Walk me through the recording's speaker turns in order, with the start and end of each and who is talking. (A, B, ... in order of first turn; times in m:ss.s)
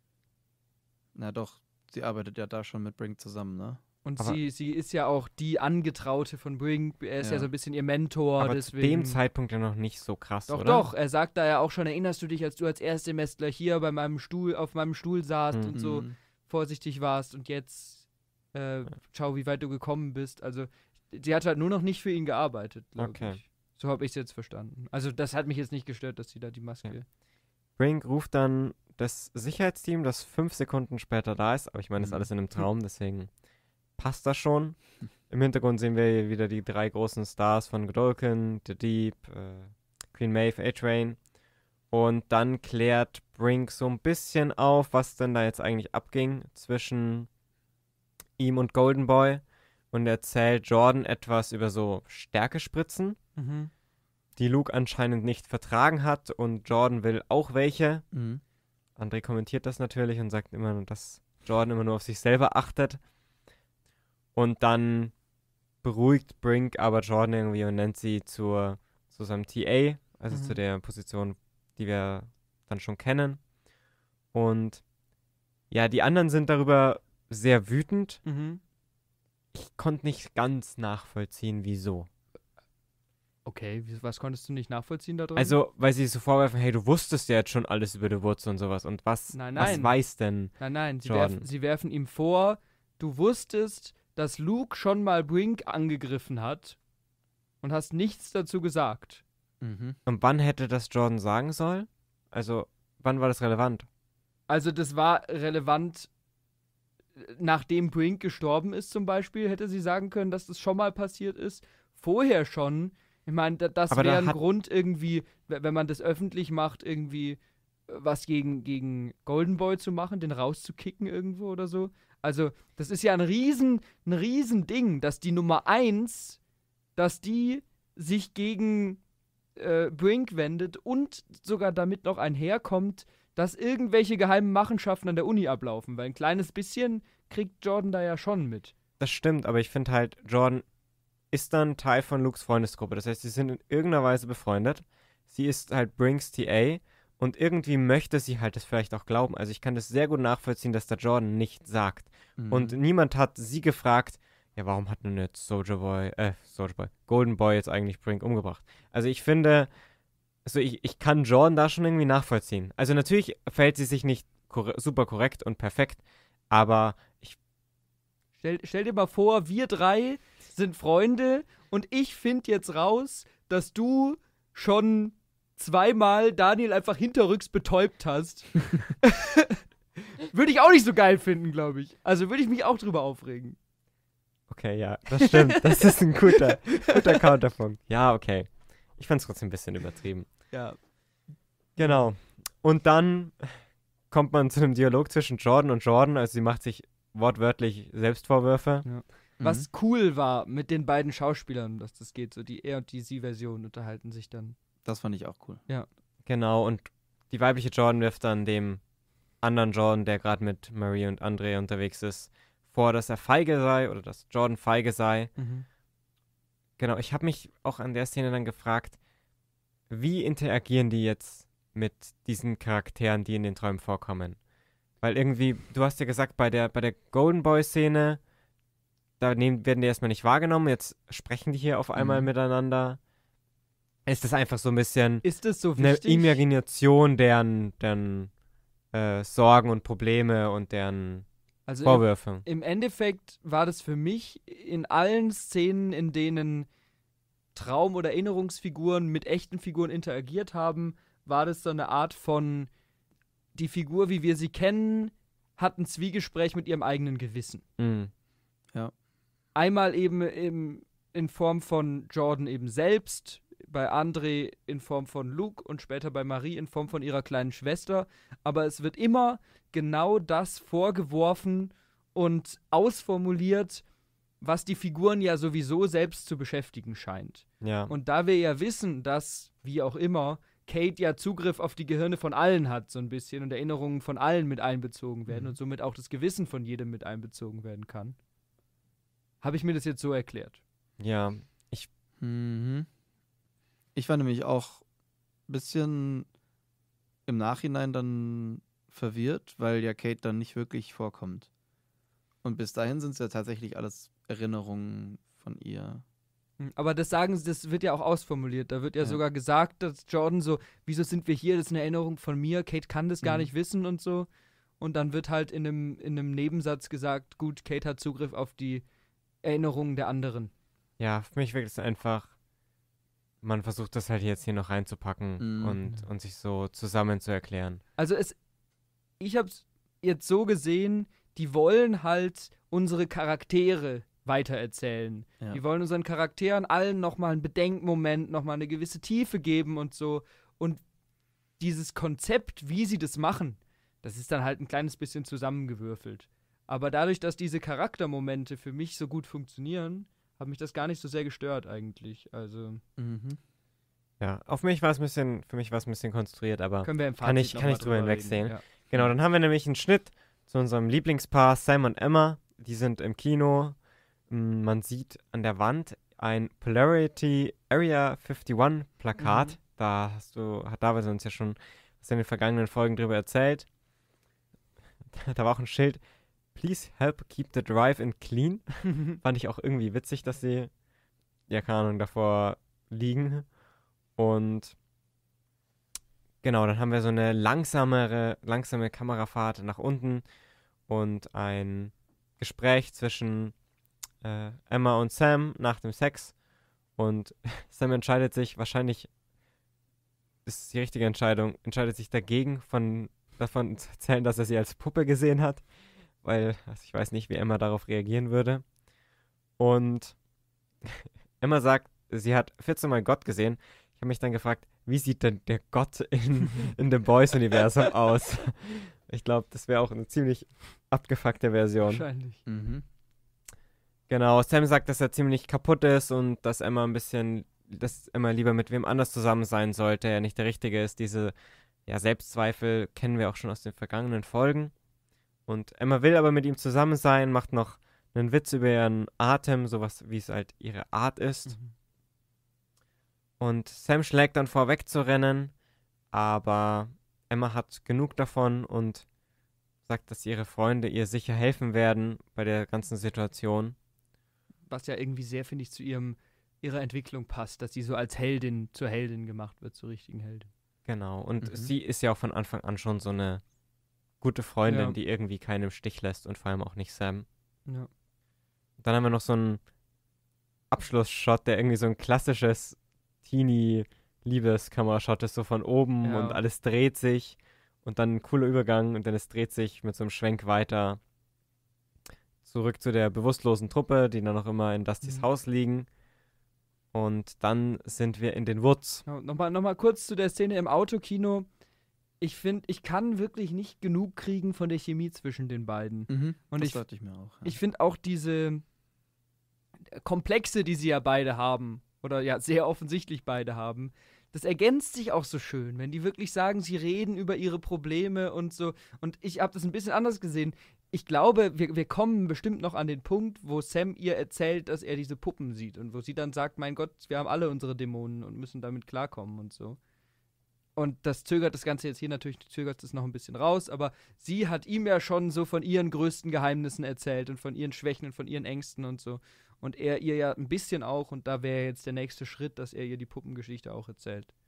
0:01.1-0:03.8 A
0:04.0-0:09.2 B
0:07.2-0:07.5 A
0:08.4-0:10.8 C
0:10.5-0:27.0 B
0:15.7-0:16.2 A
0:23.0-0:23.4 C
0:27.8-0:33.3 C
0:32.0-0:32.3 A
0:34.0-0:41.2 C
0:41.9-0:47.3 C
0:48.4-0:53.2 C
0:53.4-0:53.7 B
0:54.4-0:58.0 C
0:58.1-0:58.4 A
0:59.0-1:03.0 C
1:04.3-1:05.1 C
1:05.8-1:13.4 C
1:10.3-1:10.6 B
1:14.3-1:14.8 C
1:15.7-1:18.2 C
1:18.2-1:18.6 B
1:19.5-1:22.1 C
1:23.4-1:25.6 B
1:25.4-1:31.4 C
1:29.3-1:30.0 B
1:30.6-1:36.8 B
1:37.6-1:39.2 B
1:39.6-1:40.0 A
1:40.0-1:43.9 C
1:44.5-1:46.1 B
1:47.2-2:06.4 B
1:53.9-1:54.4 C
2:07.0-2:09.0 B
2:09.6-2:18.7 B
2:19.0-2:20.6 C
2:21.3-2:39.7 C
2:32.4-2:32.8 A
2:40.4-2:47.4 C
2:48.4-2:59.6 B
3:00.3-3:03.6 B
3:04.5-3:10.3 C
3:05.2-3:07.2 B
3:10.5-3:10.8 B
3:11.8-3:18.8 C
3:18.8-3:24.6 B
3:19.4-3:19.6 A
3:24.8-3:25.6 A
3:26.2-3:28.8 C
3:29.4-3:35.3 C
3:35.4-3:35.6 B
3:36.8-3:39.0 C
3:39.9-3:44.4 C
3:45.0-3:48.2 C
3:49.2-3:53.0 C
3:51.9-3:52.3 A
3:54.0-3:55.2 C
3:55.2-3:56.4 B
3:55.8-3:58.3 C
3:58.9-4:01.2 C
4:01.7-4:06.7 B
4:01.8-4:02.4 C
4:07.5-4:12.7 B
4:13.6-4:17.6 B
4:17.8-4:18.1 C
4:19.6-4:33.8 B
4:34.4-4:48.2 B
4:37.6-4:37.9 C
4:45.3-4:45.5 A
4:49.4-4:50.6 B
4:51.0-4:51.9 C
4:52.2-4:52.9 A
4:53.9-4:54.8 A
4:55.5-4:56.3 A
4:57.3-5:01.5 A
5:02.4-5:06.0 A
5:06.6-5:14.3 B
5:13.2-5:13.5 A
5:14.8-5:18.8 B
5:19.4-5:20.5 B
5:21.0-5:22.3 C
5:23.4-5:27.8 C
5:25.4-5:25.8 A
5:28.0-5:28.4 B
5:29.2-5:40.8 B
5:41.6-5:52.8 B
5:53.0-5:53.4 A
5:54.2-6:03.8 C
5:56.8-5:58.6 B
6:04.3-6:13.6 C
6:09.2-6:09.6 A
6:15.1-6:16.0 C
6:16.5-6:20.7 C
6:21.5-6:23.5 C
6:24.2-6:24.7 C
6:26.4-6:30.2 C
6:30.9-6:33.5 C
6:34.2-6:36.3 C
6:37.0-6:39.1 C
6:40.4-6:45.6 C
6:46.2-6:48.6 C
6:49.6-6:50.2 C
6:50.8-7:02.0 C
7:01.8-7:02.4 B
7:02.4-7:02.8 A
7:04.1-7:11.3 C
7:11.9-7:14.7 C
7:15.5-7:21.6 C
7:21.5-7:21.7 B
7:23.4-7:25.5 C
7:26.1-7:29.0 C
7:29.9-7:33.8 C
7:34.7-7:40.5 B
7:40.8-7:43.4 C
7:41.4-7:41.7 A
7:44.2-7:47.2 C
7:44.6-7:45.0 B
7:48.8-7:49.6 C
7:50.7-8:01.0 C
7:56.0-7:56.4 B
8:02.4-8:05.9 C
8:06.9-8:09.0 C
8:09.1-8:11.5 B
8:12.2-8:16.8 B
8:16.1-8:17.6 A
8:17.4-8:18.6 B
8:19.9-8:39.8 B
8:40.8-8:54.3 B